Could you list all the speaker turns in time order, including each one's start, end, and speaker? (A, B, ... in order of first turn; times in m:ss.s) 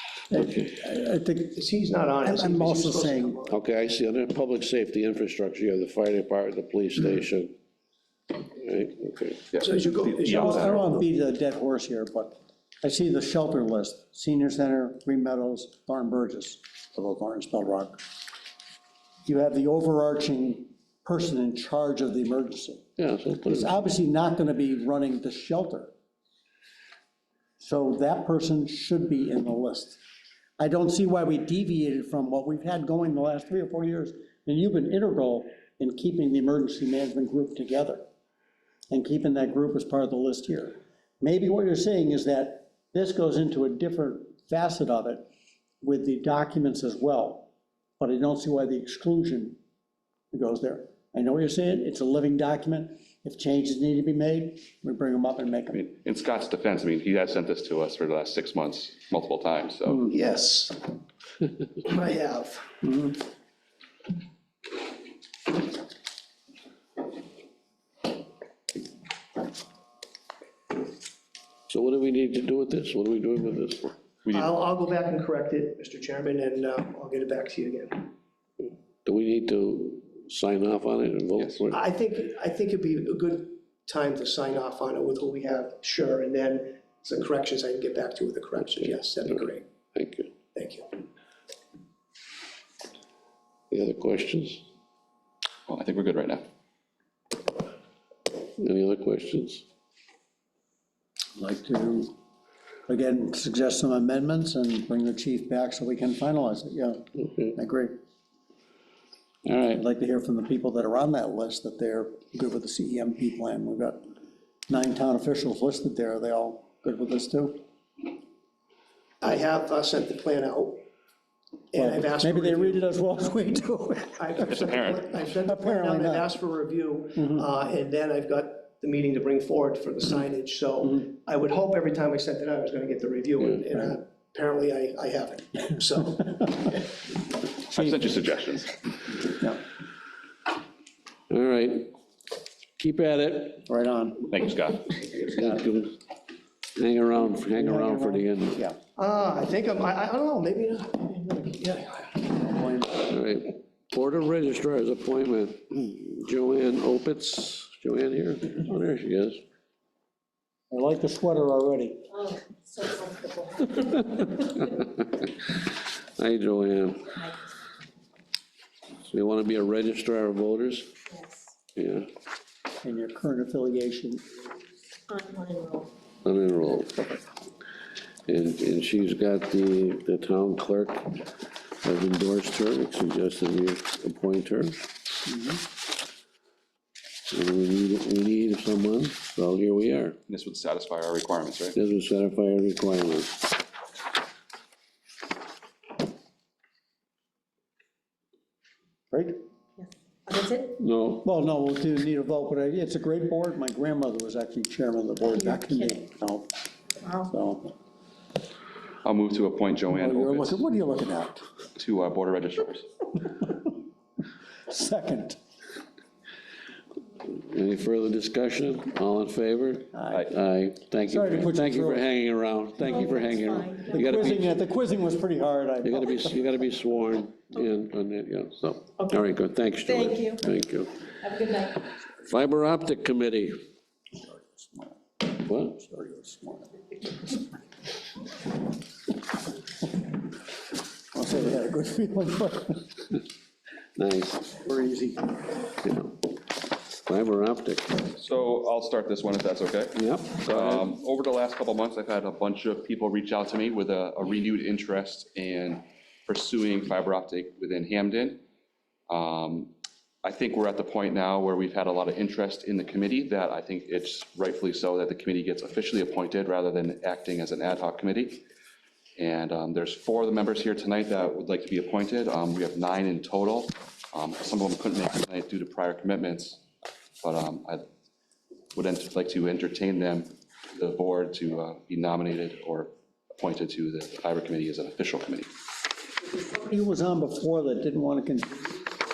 0:00.3-0:01.6 A
0:01.6-0:03.6 B
0:02.2-0:03.4 A
0:03.5-0:07.5 C
0:08.5-0:09.4 C
0:09.5-0:10.8 D
0:09.6-0:11.0 B
0:10.2-0:18.0 A
0:19.3-0:22.8 A
0:23.0-0:23.8 C
0:23.5-0:25.9 A
0:27.6-0:30.0 A
0:30.6-0:38.0 A
0:38.9-0:45.3 A
0:45.8-0:47.5 A
0:48.0-0:49.6 A
0:50.3-0:55.8 A
0:55.7-1:00.1 D
1:00.1-1:00.8 B
1:01.8-1:02.8 B
1:02.8-1:03.2 A
1:11.7-1:14.0 C
1:14.2-1:14.6 D
1:14.3-1:18.1 B
1:18.6-1:21.8 C
1:21.4-1:21.6 D
1:21.7-1:29.6 B
1:28.7-1:30.3 C
1:30.6-1:30.9 B
1:33.7-1:34.7 C
1:35.7-1:36.4 D
1:38.6-1:39.6 C
1:41.4-1:42.1 A
1:42.9-1:48.0 A
1:47.2-1:47.5 C
1:49.5-1:49.8 C
1:49.7-1:54.0 A
1:54.7-1:57.6 A
1:59.2-2:00.8 B
2:01.7-2:02.8 B
2:01.8-2:04.5 A
2:04.2-2:16.8 B
2:04.5-2:05.1 D
2:05.4-2:06.3 A
2:07.2-2:07.5 A
2:17.7-2:18.8 D
2:19.4-2:19.6 A
2:21.3-2:21.9 C
2:22.8-2:23.6 C
2:23.7-2:24.3 A
2:24.3-2:25.1 D
2:25.2-2:26.0 C
2:26.8-2:28.6 C
2:27.6-2:28.8 A
2:29.0-2:32.3 B
2:32.3-2:33.1 A
2:33.1-2:39.4 C
2:40.7-2:42.1 A
2:42.2-2:44.7 E
2:44.6-2:47.3 C
2:49.0-2:50.9 C
2:51.1-2:51.5 E
2:51.8-2:52.1 C
2:52.8-2:54.2 A
2:55.1-2:55.9 E
2:56.2-2:57.2 C
2:58.3-3:04.8 C
3:07.3-3:10.2 C
3:10.3-3:11.8 D
3:11.8-3:13.5 C
3:19.1-3:19.4 A
3:19.8-3:20.8 E
3:20.8-3:21.2 C
3:21.2-3:26.5 A
3:25.4-3:26.0 E
3:27.0-3:27.3 E
3:27.1-3:27.7 A
3:29.0-3:30.6 D
3:29.9-3:31.4 A
3:31.8-3:32.9 D
3:34.7-3:35.4 A
3:37.2-3:44.5 C
3:39.9-3:40.3 A
3:41.1-3:42.1 A
3:42.8-3:44.2 E
3:42.9-3:43.2 A
3:43.8-3:46.3 A
3:45.8-3:51.1 C
3:49.0-3:49.3 E
3:49.8-3:50.5 E
3:51.2-3:51.9 E
3:52.2-3:53.6 C
3:54.2-3:55.0 A
3:55.4-3:55.8 C
3:55.7-3:56.7 A
4:01.1-4:03.0 A
4:04.0-4:04.6 C
4:04.6-4:05.4 A
4:05.8-4:08.0 C
4:08.1-4:18.4 D
4:10.0-4:10.9 C
4:19.1-4:19.7 D
4:20.2-4:28.4 D
4:29.2-4:36.6 D
4:37.2-4:37.8 D
4:38.7-4:45.5 D
4:46.3-4:48.8 A